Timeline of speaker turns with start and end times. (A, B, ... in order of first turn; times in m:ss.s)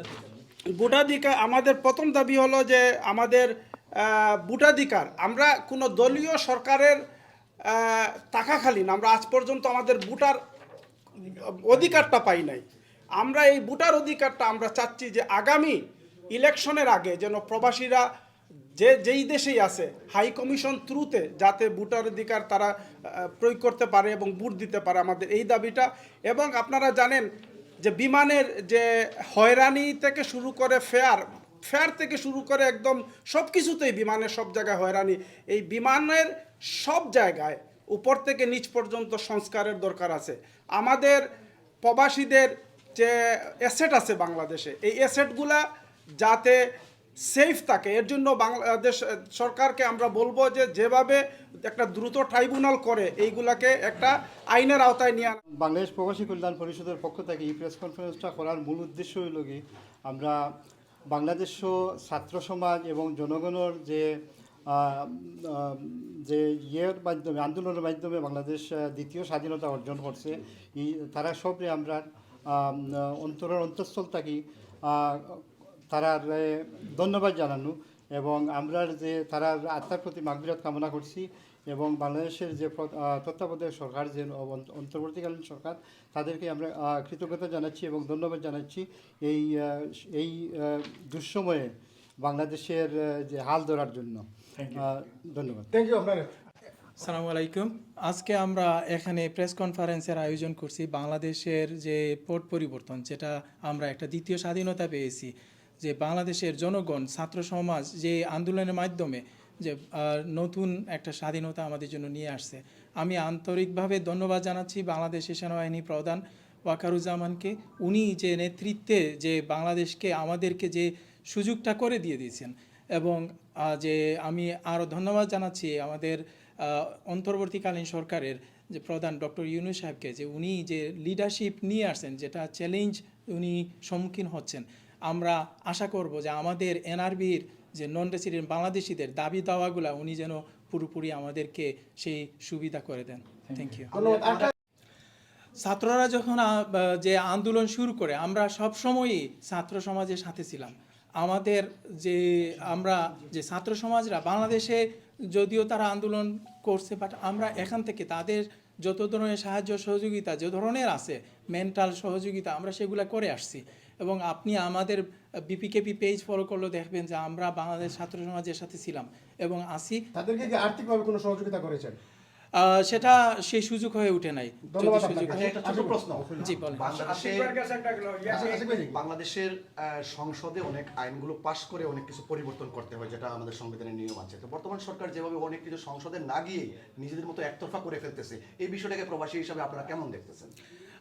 0:00.7-0:07.0 A
0:07.7-0:10.4 A
0:11.2-0:12.6 A
0:13.2-0:15.8 A
0:16.3-0:18.0 A
0:18.8-0:27.2 A
0:27.8-0:41.2 A
0:41.8-0:45.6 A
0:46.2-0:46.6 A
0:47.2-0:55.4 A
0:55.5-1:00.5 B
1:01.1-1:35.7 B
1:35.7-1:36.3 C
1:37.0-2:23.9 D
2:23.9-2:24.5 C
2:23.9-2:24.5 E
2:25.6-2:50.0 D
2:50.1-2:52.0 C
2:52.6-2:55.5 D
2:54.7-2:57.3 C
2:55.3-2:57.6 E
2:56.4-2:57.0 D
2:58.0-2:58.3 A
2:58.3-3:10.5 E
2:58.4-2:59.0 C